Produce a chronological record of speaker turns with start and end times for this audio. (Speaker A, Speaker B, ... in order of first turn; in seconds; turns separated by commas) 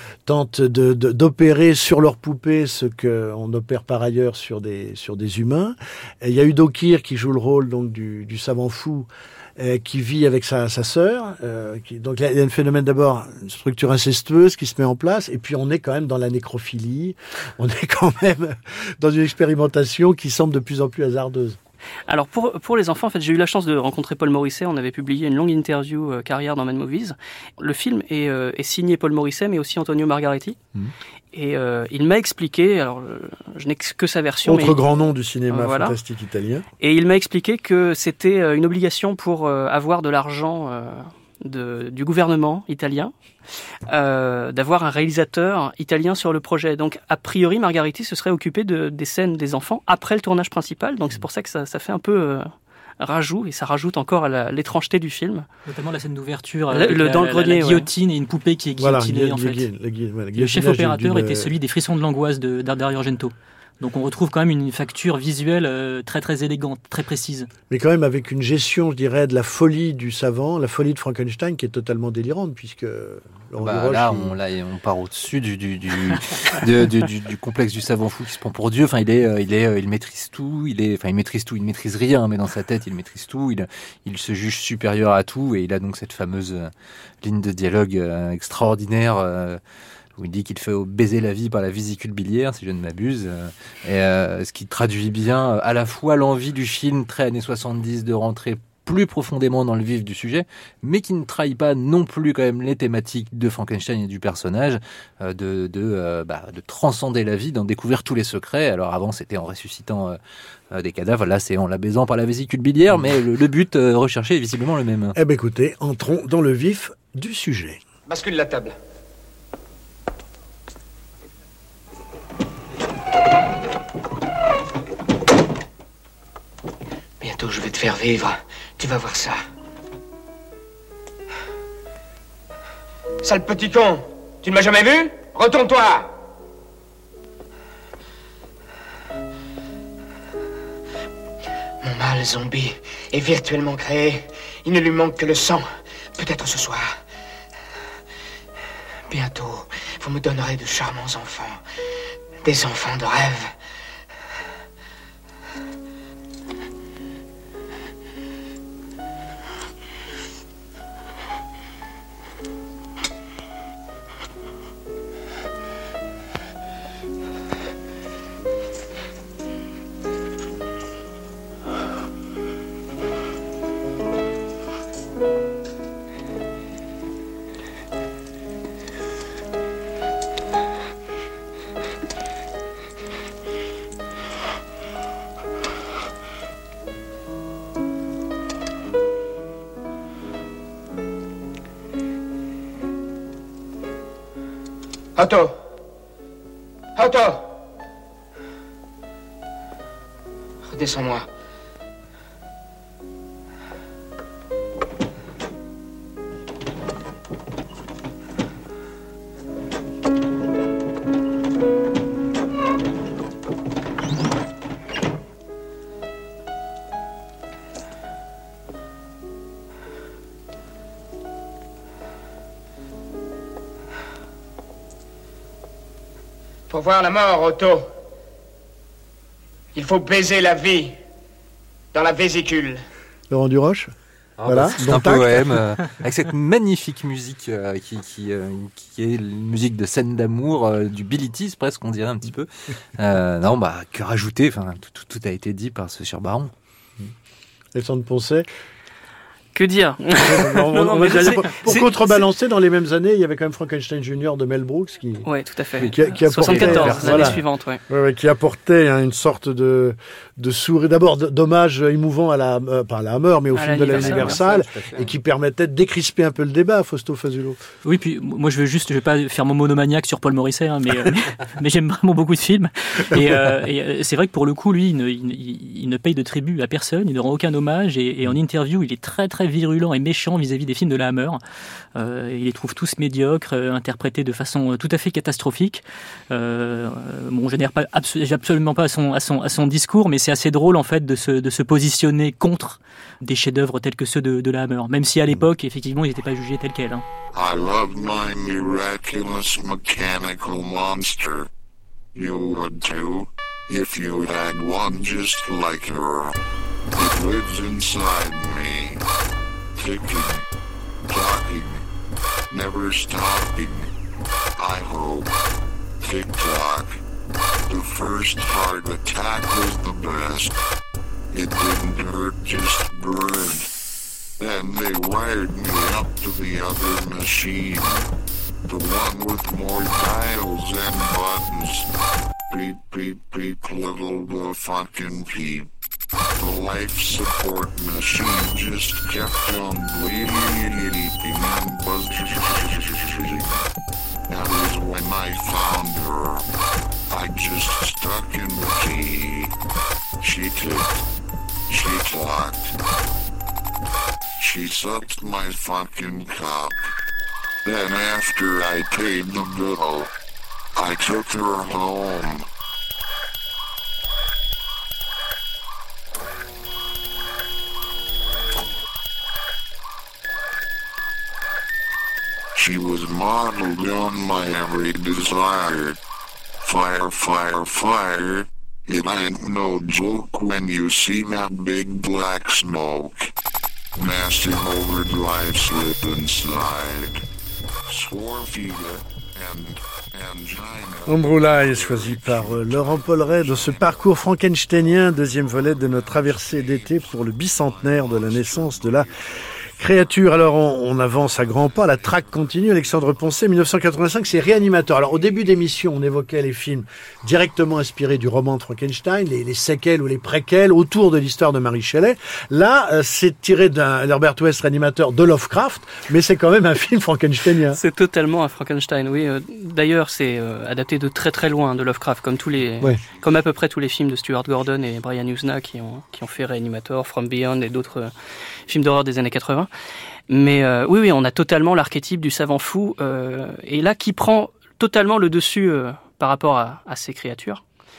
Speaker A: 0.2-21.6, Speaker B: 22.1-30.6, Speaker B: 31.3-34.8, Speaker A: 34.4-36.6, Speaker B: 35.5-36.0, Speaker B: 36.8-43.1, Speaker B: 43.9-55.5, Speaker C: 55.7-59.7, Speaker B: 56.7-57.9, Speaker A: 58.8-61.5, Speaker C: 60.3-67.5, Speaker A: 67.7-74.3, Speaker D: 73.6-89.6, Speaker D: 90.2-110.2, Speaker D: 110.7-115.2, Speaker A: 115.2-117.8, Speaker E: 118.1-118.7, Speaker F: 127.2-129.4, Speaker E: 133.2-136.0, Speaker F: 141.8-147.0, Speaker F: 149.1-151.7, Speaker F: 152.4-153.6, Speaker E: 195.2-195.5, Speaker E: 197.0-197.4, Speaker F: 200.7-201.3, Speaker E: 226.7-227.8, Speaker E: 229.7-230.9, Speaker E: 231.9-232.8, Speaker A: 233.3-233.9, Speaker D: 234.4-246.5, Speaker A: 234.4-235.5, Speaker A: 247.7-248.4, Speaker B: 249.5-252.2, Speaker A: 250.2-255.2, Speaker B: 255.2-257.8, Speaker A: 255.8-267.6, Speaker D: 256.4-257.4, Speaker B: 263.5-264.4, Speaker D: 263.9-265.1, Speaker C: 267.8-281.4, Speaker C: 281.9-297.0, Speaker G: 297.3-301.5, Speaker G: 302.1-306.3, Speaker G: 306.9-309.0, Speaker G: 309.7-310.4, Speaker G: 311.1-311.8, Speaker G: 312.5-313.9, Speaker G: 314.6-315.3, Speaker G: 316.0-317.0, Speaker G: 317.7-320.5, Speaker G: 321.3-323.7, Speaker G: 324.4-328.1, Speaker G: 328.7-331.9, Speaker G: 332.5-335.7, Speaker G: 336.4-343.6, Speaker G: 344.3-346.4, Speaker G: 347.1-349.5, Speaker G: 350.2-351.0, Speaker G: 351.7-352.8, Speaker G: 354.4-356.9, Speaker G: 357.6-360.1, Speaker G: 360.7-362.5, Speaker G: 372.5-376.0, Speaker G: 376.6-383.3, Speaker G: 383.9-387.2, Speaker G: 387.8-394.0, Speaker A: 391.1-399.1, Speaker G: 396.2-399.6, Speaker A: 399.8-417.8, Speaker B: 417.7-428.1, Speaker B: 428.7-429.7, Speaker B: 430.3-437.6